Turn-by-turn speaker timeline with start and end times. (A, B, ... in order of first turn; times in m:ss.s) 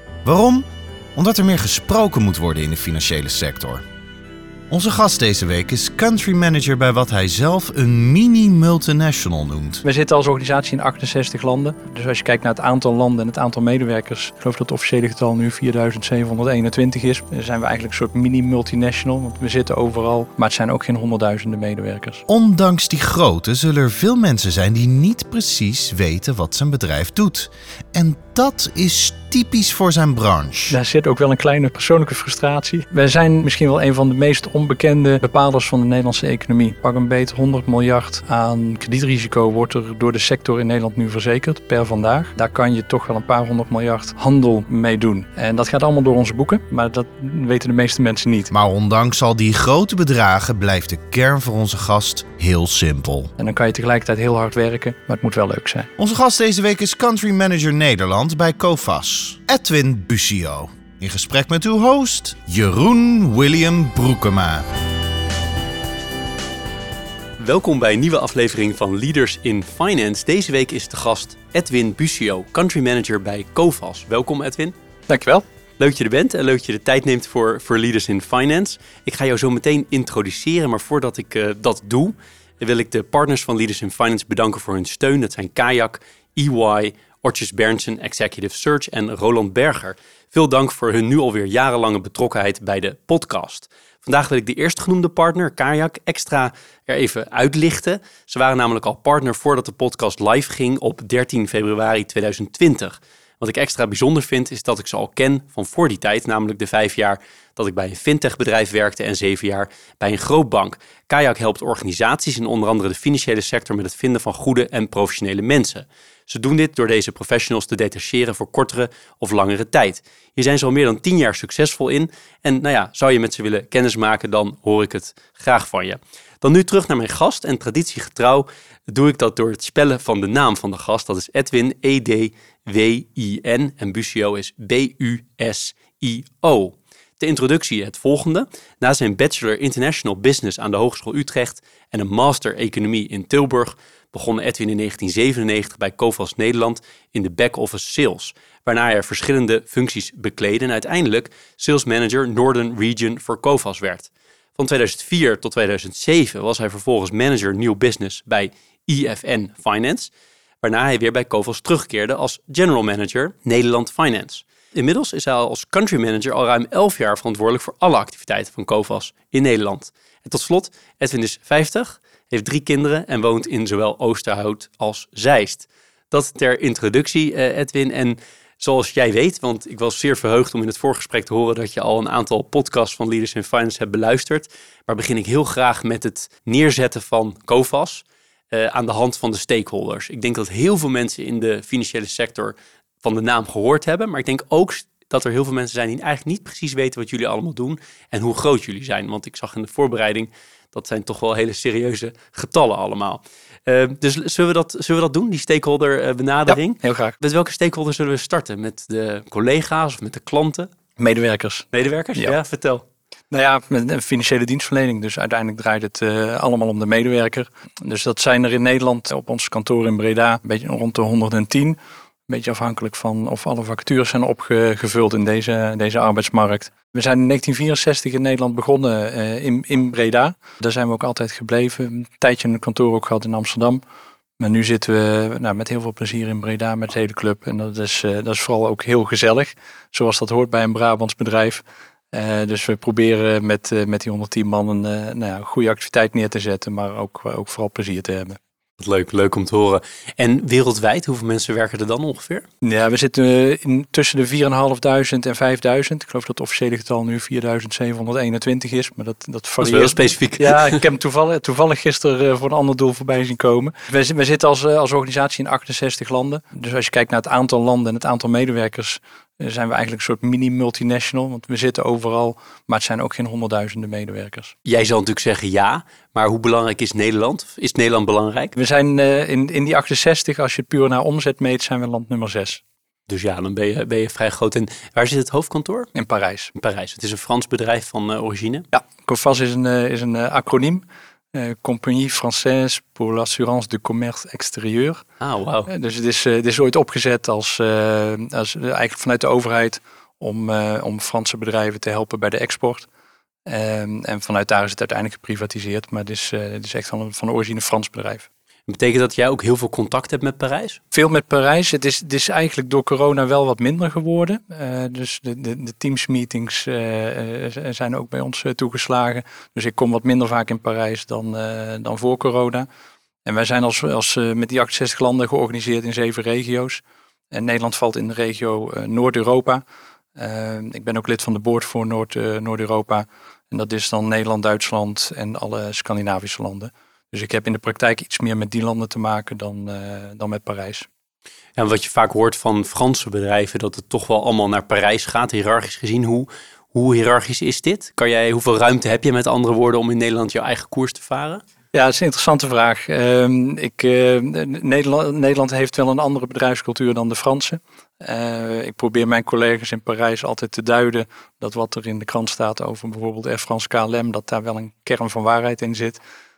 0:00.2-0:03.8 A
0:04.7-0:09.8 A
0:09.8-0:22.2 B
0:22.3-0:30.8 A
0:30.7-0:48.5 B
0:48.5-0:53.3 A
0:53.4-0:55.9 B
0:56.0-1:04.7 A
1:07.4-1:14.8 C
1:15.1-1:15.4 B
1:15.8-2:40.1 C
2:40.6-3:30.7 C
3:26.5-3:27.2 B
3:31.0-3:32.4 B
3:31.7-3:32.8 C
3:33.3-3:41.8 B
3:42.3-3:53.8 B
3:54.4-4:08.4 B
4:08.8-4:12.5 C
4:12.6-4:34.5 B
4:19.6-4:20.8 C
4:34.6-4:38.5 C
4:38.6-4:42.6 B
4:43.1-4:45.9 C
4:45.9-4:46.5 B
4:46.6-4:48.7 C
4:48.7-4:55.0 B
4:55.2-4:55.7 C
4:55.7-5:02.9 B
5:03.5-5:08.3 B
5:08.7-5:10.8 C
5:10.9-5:22.7 B
5:23.2-5:29.6 B
5:30.2-5:40.9 B
5:41.6-5:51.4 C
5:51.7-6:06.0 B